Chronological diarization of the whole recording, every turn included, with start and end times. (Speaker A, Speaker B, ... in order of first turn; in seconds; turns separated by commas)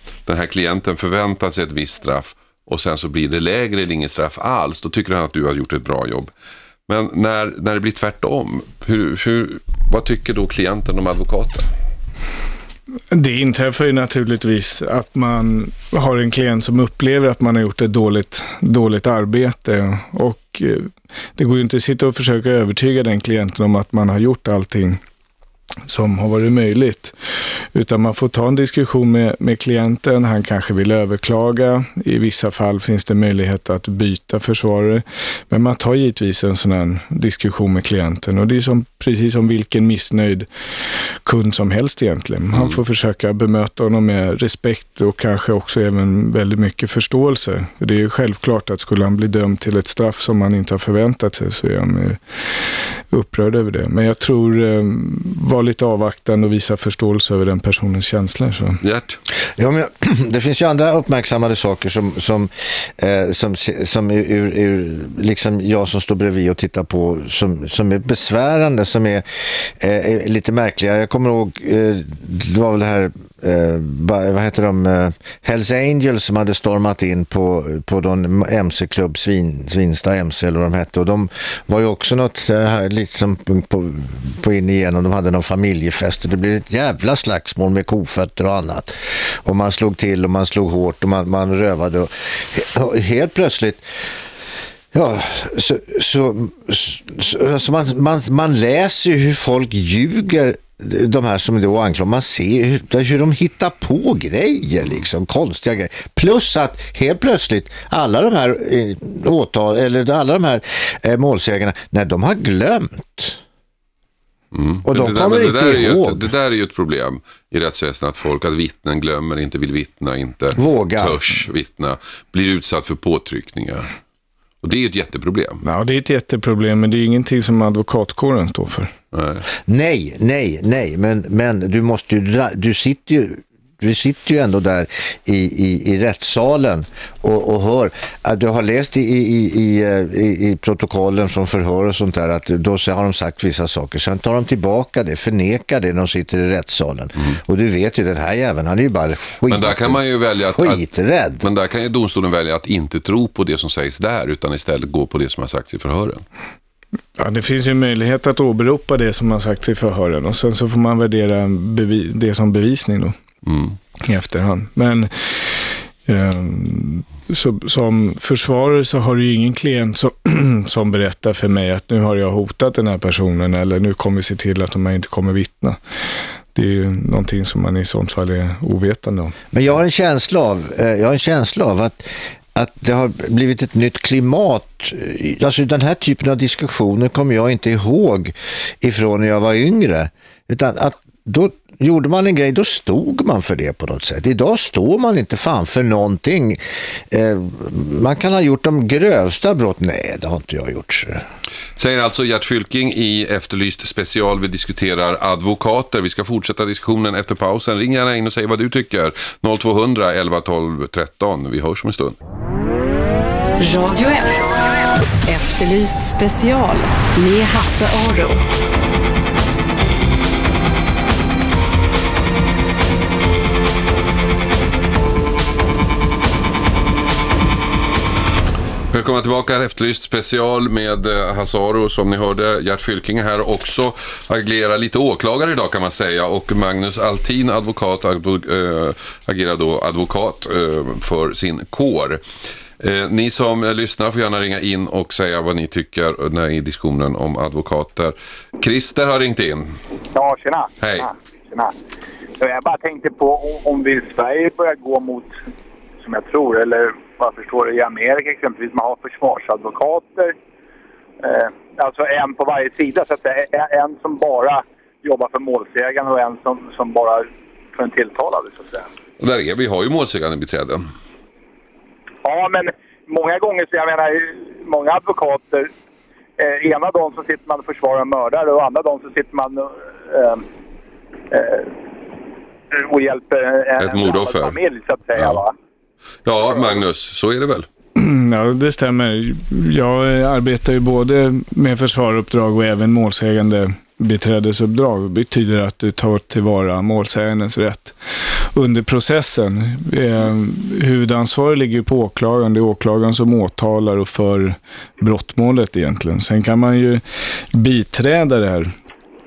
Speaker A: 0.3-6.3, Speaker A: 6.9-11.7, Speaker B: 13.1-25.0, Speaker B: 25.9-27.1, Speaker B: 27.7-40.5, Speaker B: 41.2-58.8, Speaker A: 58.8-59.2, Speaker C: 59.6-93.9, Speaker C: 94.9-113.4, Speaker A: 114.5-123.9, Speaker C: 114.9-116.3, Speaker C: 120.5-121.2, Speaker A: 124.6-125.6, Speaker B: 125.6-128.9, Speaker A: 129.1-129.5, Speaker C: 129.7-151.5, Speaker A: 149.5-150.8, Speaker A: 151.4-156.2, Speaker B: 157.2-163.2, Speaker A: 163.5-163.8, Speaker B: 164.0-175.8, Speaker B: 176.6-179.4, Speaker C: 179.5-201.2, Speaker A: 201.8-212.2, Speaker D: 213.6-214.6, Speaker D: 215.3-218.4, Speaker A: 228.9-242.2, Speaker A: 242.8-249.8, Speaker E: 250.1-251.7, Speaker A: 250.8-251.1, Speaker E: 252.4-255.3, Speaker E: 256.0-260.3, Speaker E: 261.2-268.9, Speaker A: 269.2-270.9, Speaker E: 272.2-275.7, Speaker E: 276.4-280.4, Speaker E: 281.3-281.7, Speaker E: 282.7-285.6, Speaker A: 283.8-284.6, Speaker A: 285.1-285.4, Speaker A: 286.2-287.7, Speaker B: 288.0-307.0, Speaker B: 307.5-308.7